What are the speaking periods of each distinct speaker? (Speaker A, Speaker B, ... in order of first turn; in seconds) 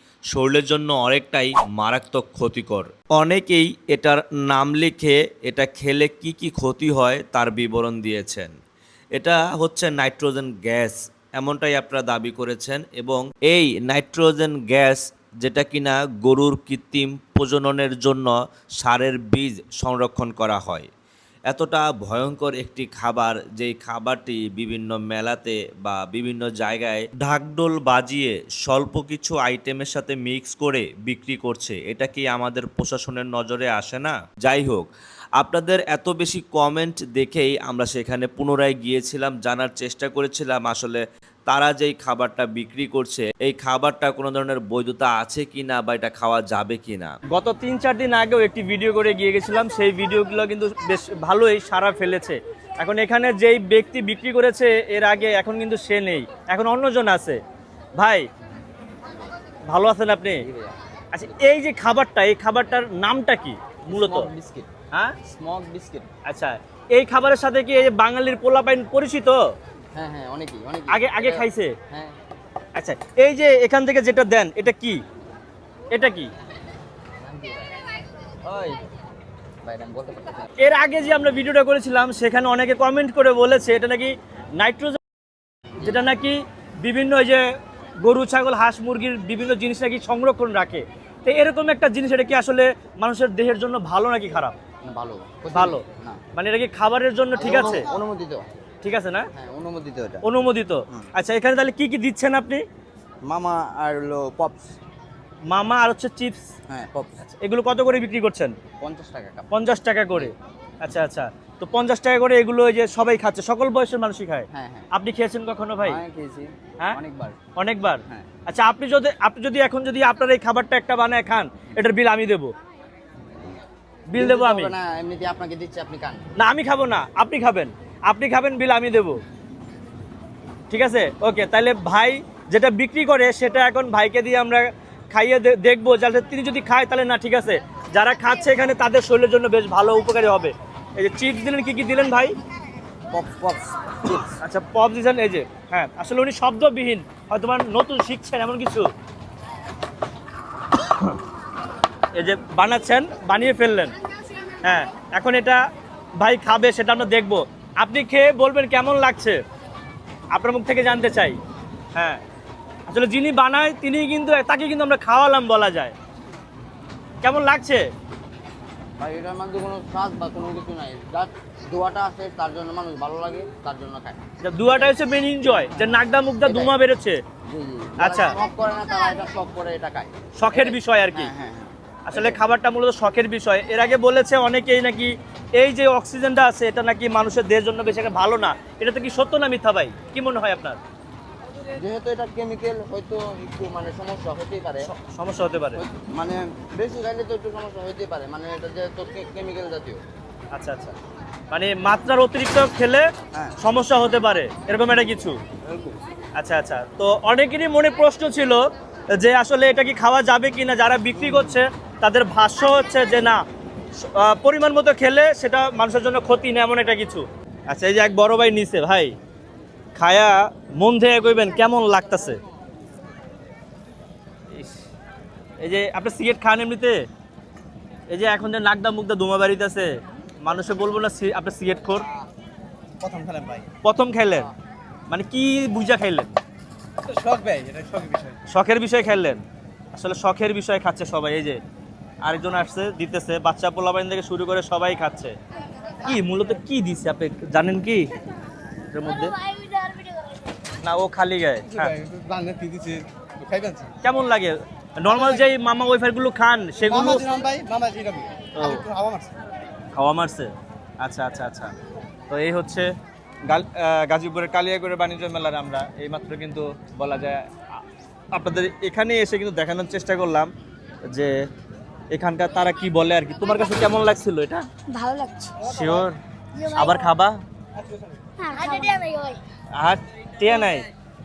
Speaker A: 0.3-8.5, 9.2-20.9, 21.5-47.1
Speaker B: 47.3-57.4, 58.0-58.3, 59.7-60.4, 61.1-64.3, 66.3-69.4, 70.9-71.8, 72.8-75.0, 75.9-76.3, 80.6-85.0, 85.8-87.4, 88.0-94.6, 95.5-95.8, 96.3-97.9, 98.8-99.3, 100.2-102.6, 105.5-106.5, 107.3-108.6, 109.5-116.0, 117.6-122.5, 124.1-124.7, 126.4-129.2, 130.7-142.4, 144.4-148.9, 152.2-153.9, 154.6-155.6, 156.2-159.4, 160.3-161.4, 161.9-162.2, 162.9-165.9, 167.2-167.8, 174.4-177.2, 178.0-178.3, 180.4-181.3, 182.1-190.8, 194.8-195.8, 200.5-201.0, 201.5-203.1, 203.6-205.4, 206.4-208.6, 209.1-213.4, 214.0-219.1, 220.0-222.4, 224.5-224.8, 225.6-227.0, 228.1-232.1, 233.8-234.5, 235.1-236.4, 238.5-239.4, 239.9-241.6, 242.2-245.4, 246.0-248.1, 248.9-249.4, 250.8-251.9, 254.0-257.3, 258.6-258.9, 259.9-261.7, 262.3-262.9, 263.5-267.8, 268.3-270.5, 271.1-271.4, 272.1-274.7, 275.6-276.2, 276.7-277.4, 279.8-280.9
Speaker C: 60.4-60.8, 63.9-64.7, 65.2-66.1, 69.9-72.2, 77.2-77.8, 78.4-78.8, 79.6-80.5, 94.8-96.2, 97.3-98.5, 99.3-100.3, 103.3-104.8, 106.7-107.2, 108.8-109.5, 114.5-114.9, 115.8-117.4, 124.2-126.2, 143.1-144.3, 169.0-174.2, 175.5-176.7, 177.5-182.4, 191.7-194.9, 195.8-200.0, 205.6-206.0, 211.2-211.6
Speaker D: 233.0-233.7, 237.1-238.4, 251.7-253.9, 255.1-255.4, 256.8-259.3
Speaker E: 274.9-275.6, 276.6-277.0, 278.4-279.4